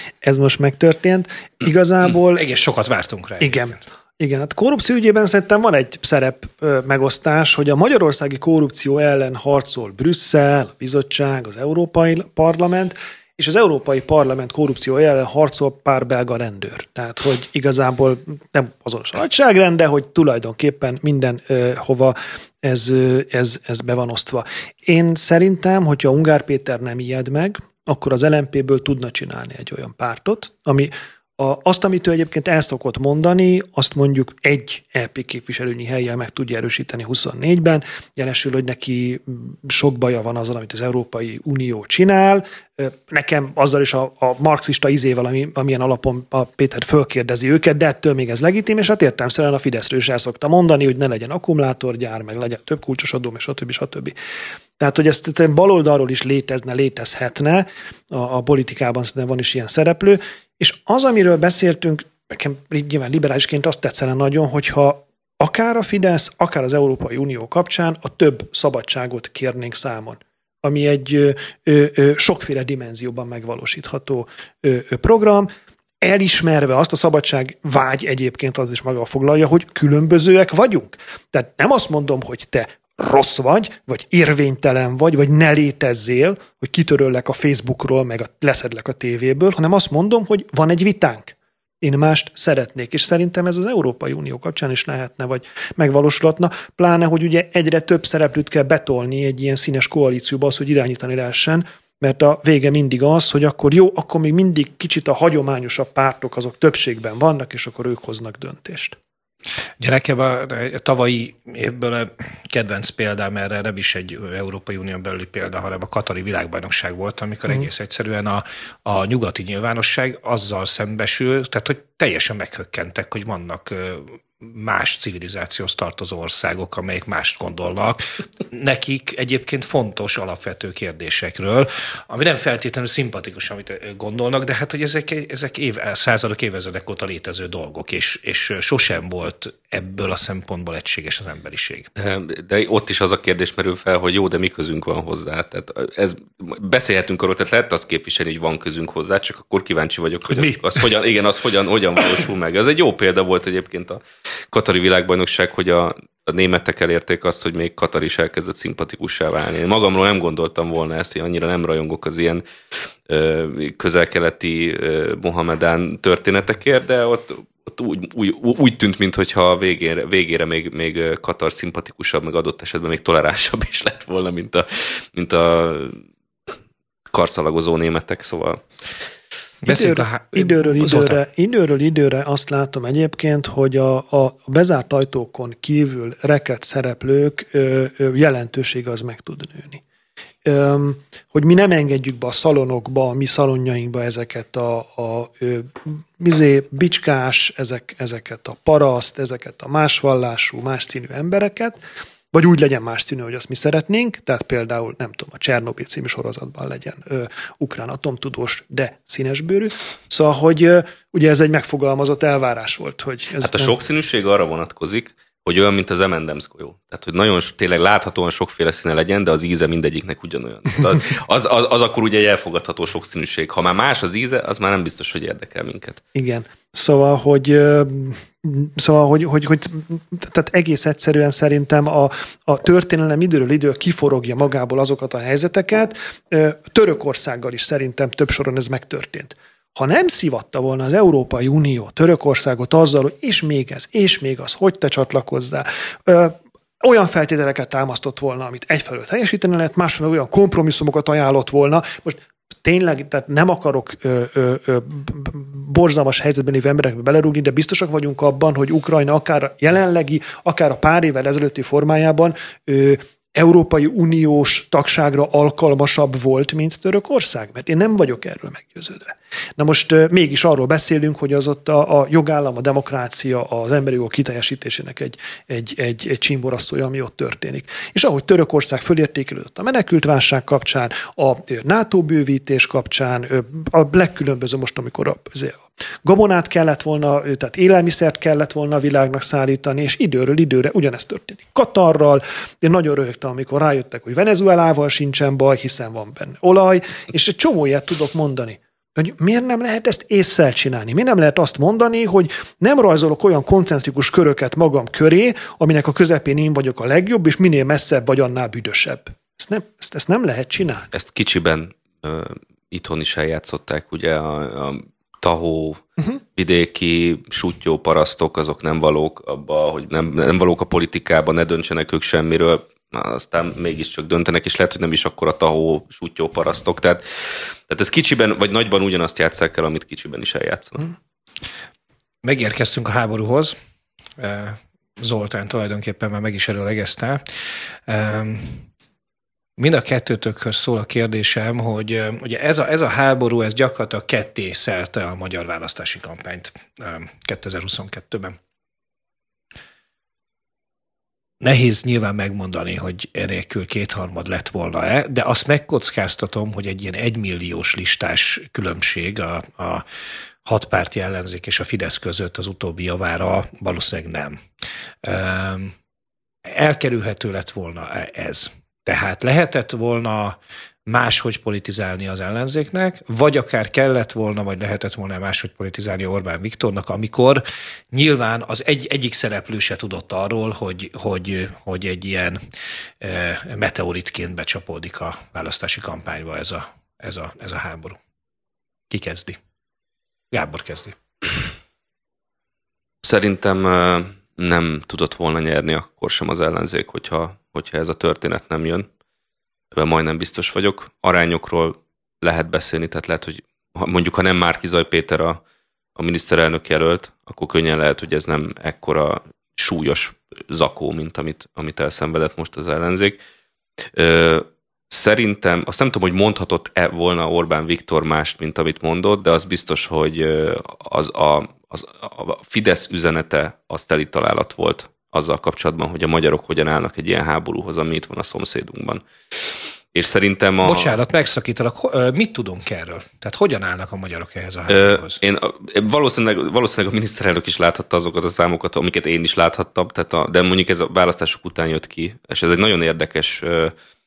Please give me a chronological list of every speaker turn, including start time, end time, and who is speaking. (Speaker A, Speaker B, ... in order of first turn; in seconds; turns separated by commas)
Speaker A: 0.2-2.4, Speaker B: 2.4-3.8, Speaker A: 3.4-54.2, Speaker A: 54.8-75.5, Speaker A: 76.0-109.0, Speaker B: 109.8-141.9, Speaker C: 142.0-162.4, Speaker B: 150.3-150.6, Speaker C: 163.1-176.0, Speaker C: 177.1-178.6, Speaker B: 179.6-181.2, Speaker A: 179.7-189.8, Speaker A: 190.4-201.8, Speaker A: 202.3-213.8, Speaker C: 213.4-226.0, Speaker A: 226.2-310.9, Speaker C: 310.9-315.8, Speaker C: 316.4-330.9, Speaker B: 332.2-333.6, Speaker B: 334.2-337.2, Speaker B: 337.9-338.7, Speaker B: 339.6-348.4, Speaker B: 351.4-359.8, Speaker B: 360.4-364.4, Speaker B: 365.0-365.7, Speaker B: 366.4-382.4, Speaker B: 383.0-388.0, Speaker B: 388.9-389.4, Speaker B: 390.3-391.0, Speaker C: 393.0-398.9, Speaker C: 399.7-405.4, Speaker C: 406.0-413.2, Speaker C: 413.9-429.1, Speaker C: 429.9-431.0, Speaker B: 430.6-435.2, Speaker C: 434.7-443.7